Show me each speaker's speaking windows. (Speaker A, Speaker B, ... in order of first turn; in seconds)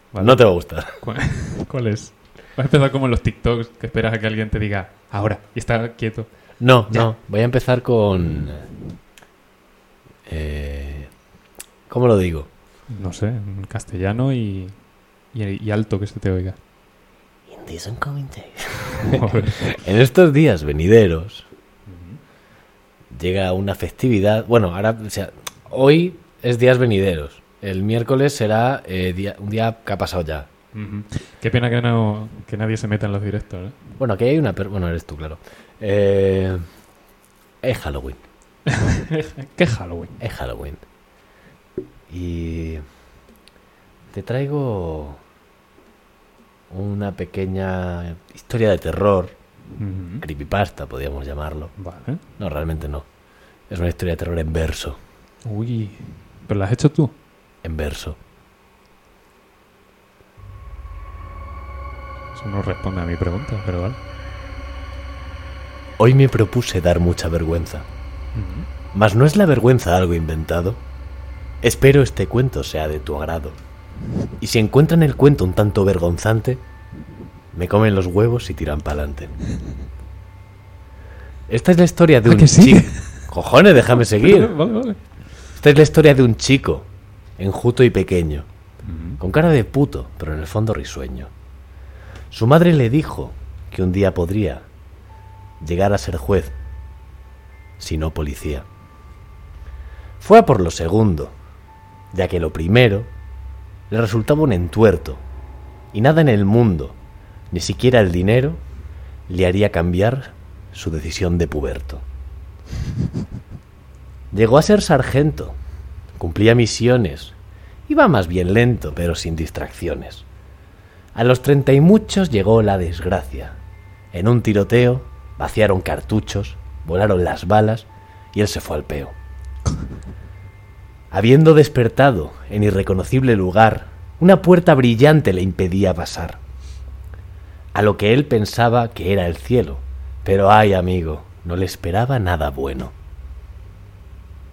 Speaker A: 0.1-0.5, 1.0-6.3, 12.9-14.7, 15.3-16.6, 19.0-19.7, 21.9-22.2, 30.7-33.8, 38.6-40.1, 49.8-50.2, 51.8-52.2, 55.4-57.1, 62.3-64.0, 68.3-68.7, 82.2-83.1, 83.9-85.0, 88.8-89.2
Speaker B: 0.2-1.0, 6.6-8.6, 10.3-11.1, 11.9-12.5, 17.5-21.5, 23.1-30.5, 34.0-36.6, 37.6-38.2, 40.2-40.8, 42.1-42.8, 44.1-45.2, 46.7-49.3, 50.2-51.7, 52.4-53.0, 53.7-55.0, 57.6-58.2, 66.0-67.8, 68.9-70.8, 71.6-73.6, 74.4-76.6, 77.5-79.3, 81.5-84.5, 85.5-86.9, 87.4-88.5, 89.2-91.3, 92.3-94.6, 95.6-96.5, 97.8-98.7, 100.2-101.3, 102.1-103.1, 103.9-105.2, 105.9-107.0, 107.5-108.6, 109.3-112.0, 114.3-115.5, 116.2-117.3, 117.9-120.2, 121.1-123.6, 124.1-129.1, 131.1-136.4, 137.7-142.9